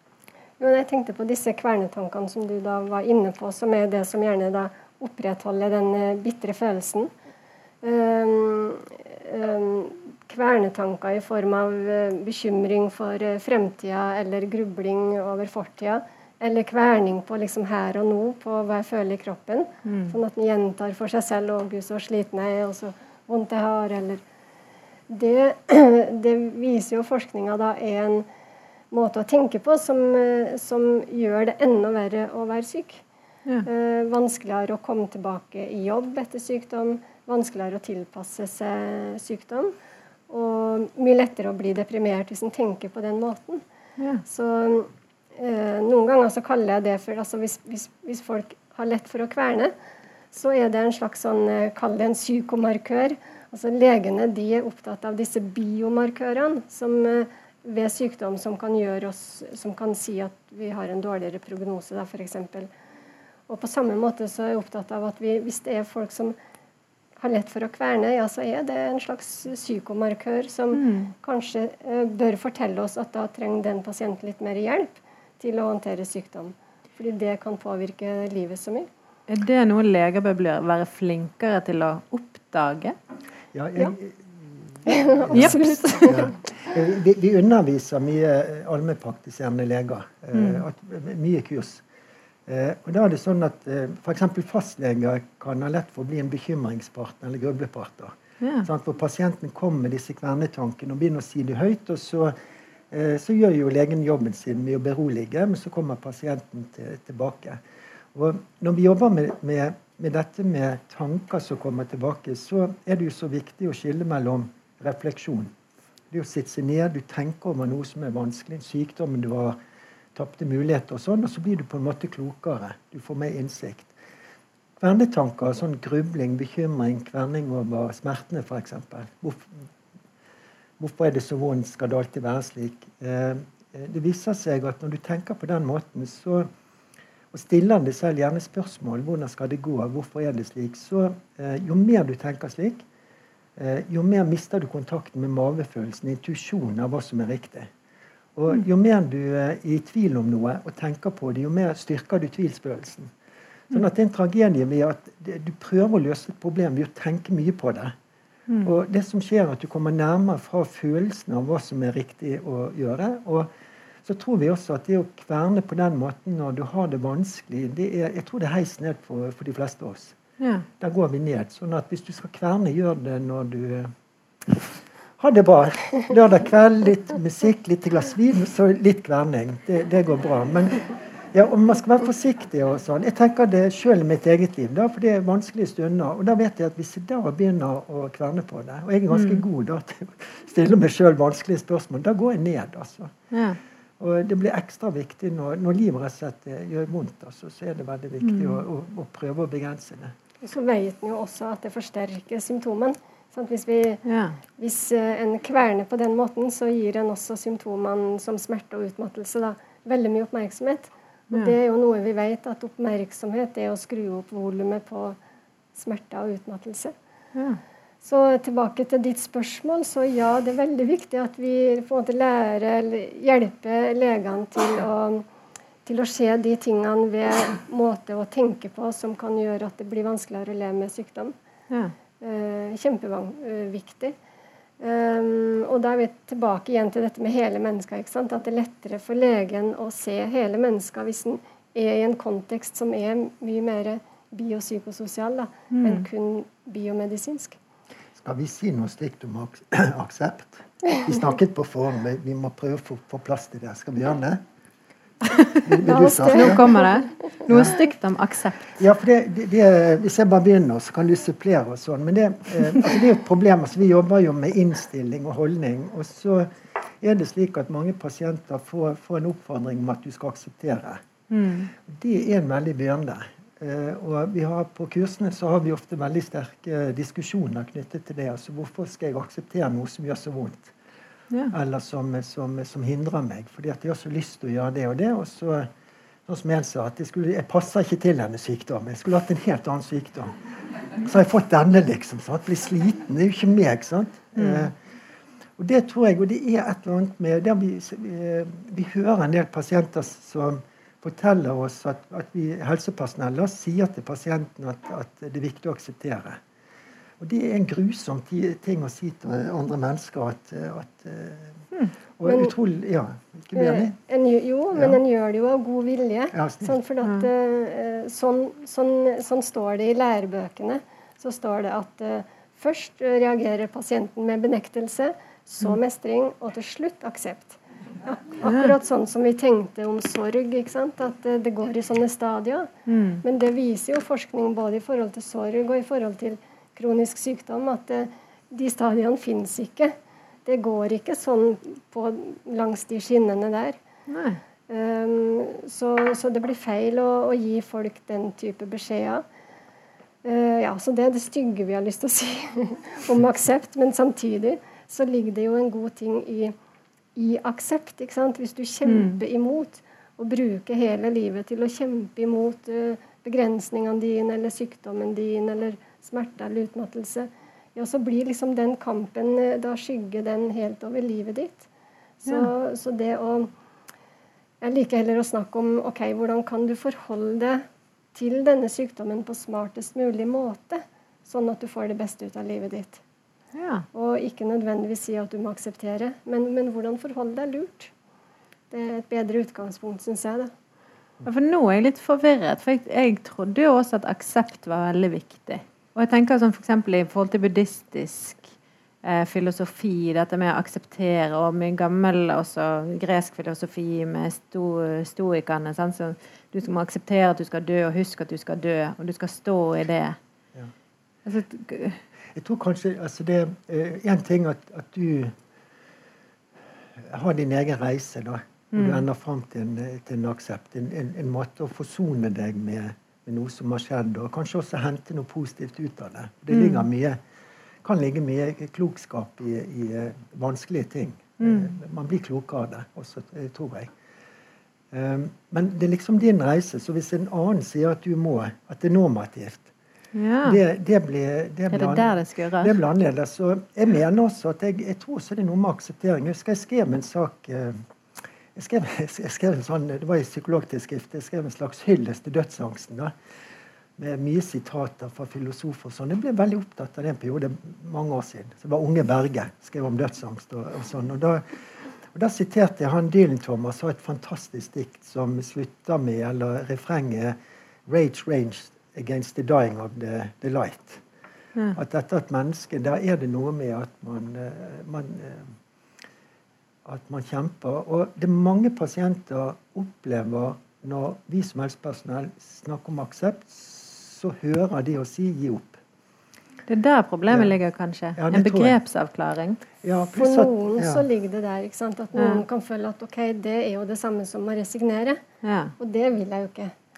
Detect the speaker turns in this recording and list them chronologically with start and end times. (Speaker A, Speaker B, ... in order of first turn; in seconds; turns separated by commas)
Speaker A: 0.6-7.1, Speaker A: 7.8-24.2, Speaker B: 19.9-20.2, Speaker A: 25.1-28.3, Speaker A: 28.9-33.0, Speaker A: 33.6-39.7, Speaker A: 40.3-43.6, Speaker B: 44.0-44.2, Speaker A: 44.2-49.7, Speaker A: 50.3-62.7, Speaker A: 63.5-66.4, Speaker A: 67.2-78.9, Speaker B: 70.7-71.1, Speaker B: 79.3-83.0, Speaker C: 83.5-91.8, Speaker A: 84.9-86.3, Speaker B: 85.3-86.2, Speaker B: 90.3-90.6, Speaker C: 92.5-102.3, Speaker B: 98.4-98.7, Speaker C: 102.9-107.6, Speaker C: 108.1-115.5, Speaker C: 116.1-119.6, Speaker C: 120.2-123.9, Speaker C: 124.8-129.7, Speaker C: 130.8-136.5, Speaker C: 137.3-142.8, Speaker C: 143.6-147.7, Speaker C: 148.4-153.1, Speaker C: 153.7-157.9, Speaker C: 158.6-163.5, Speaker C: 164.0-170.2, Speaker B: 170.4-170.7, Speaker C: 170.8-173.9, Speaker C: 174.4-193.1, Speaker B: 189.1-189.4, Speaker B: 193.3-193.6, Speaker C: 194.0-200.2, Speaker B: 198.2-198.6, Speaker A: 200.4-204.0, Speaker B: 204.1-204.4, Speaker A: 204.6-215.2, Speaker A: 215.8-216.9, Speaker B: 217.3-217.6, Speaker A: 218.0-225.2, Speaker A: 225.9-231.3, Speaker A: 232.2-234.2, Speaker A: 234.8-247.6, Speaker B: 245.7-246.1, Speaker C: 248.2-254.4, Speaker B: 255.3-255.6, Speaker C: 255.6-256.6, Speaker A: 255.8-256.9, Speaker B: 256.3-258.8, Speaker C: 257.5-257.8, Speaker C: 258.8-266.5, Speaker C: 267.0-271.0, Speaker B: 271.3-271.7, Speaker C: 271.8-280.8, Speaker C: 281.5-285.7, Speaker C: 286.3-290.4, Speaker C: 291.0-294.7, Speaker B: 294.4-294.7, Speaker C: 295.6-306.4, Speaker C: 307.2-311.6, Speaker C: 312.2-313.9, Speaker A: 312.3-312.5, Speaker A: 313.6-332.7, Speaker C: 316.3-316.8, Speaker B: 317.0-317.3, Speaker B: 328.4-328.7, Speaker B: 332.9-333.2, Speaker A: 333.2-339.9, Speaker A: 340.5-343.8, Speaker B: 344.1-344.4, Speaker A: 344.7-349.2, Speaker A: 350.2-356.6, Speaker A: 357.2-371.7, Speaker B: 358.9-359.2, Speaker A: 372.2-373.5, Speaker A: 374.6-377.6, Speaker A: 378.1-383.0, Speaker B: 383.6-383.9, Speaker A: 383.9-387.9, Speaker A: 388.7-390.5, Speaker B: 391.2-398.5, Speaker B: 399.0-410.2, Speaker B: 411.3-412.0, Speaker C: 412.3-415.4, Speaker C: 417.0-427.2, Speaker B: 418.7-419.0, Speaker B: 426.5-426.9, Speaker C: 427.8-433.9, Speaker B: 431.4-431.7, Speaker C: 434.9-439.7, Speaker B: 440.1-440.6, Speaker C: 440.5-447.8, Speaker B: 441.7-442.8, Speaker C: 448.6-453.1, Speaker C: 454.0-461.5, Speaker C: 462.1-467.4, Speaker C: 467.9-471.0, Speaker C: 471.8-475.6, Speaker C: 476.9-485.8, Speaker B: 486.7-489.6, Speaker C: 488.2-488.8, Speaker C: 489.8-491.0, Speaker A: 490.1-495.2, Speaker B: 492.2-492.4, Speaker B: 495.4-495.7, Speaker A: 495.8-496.7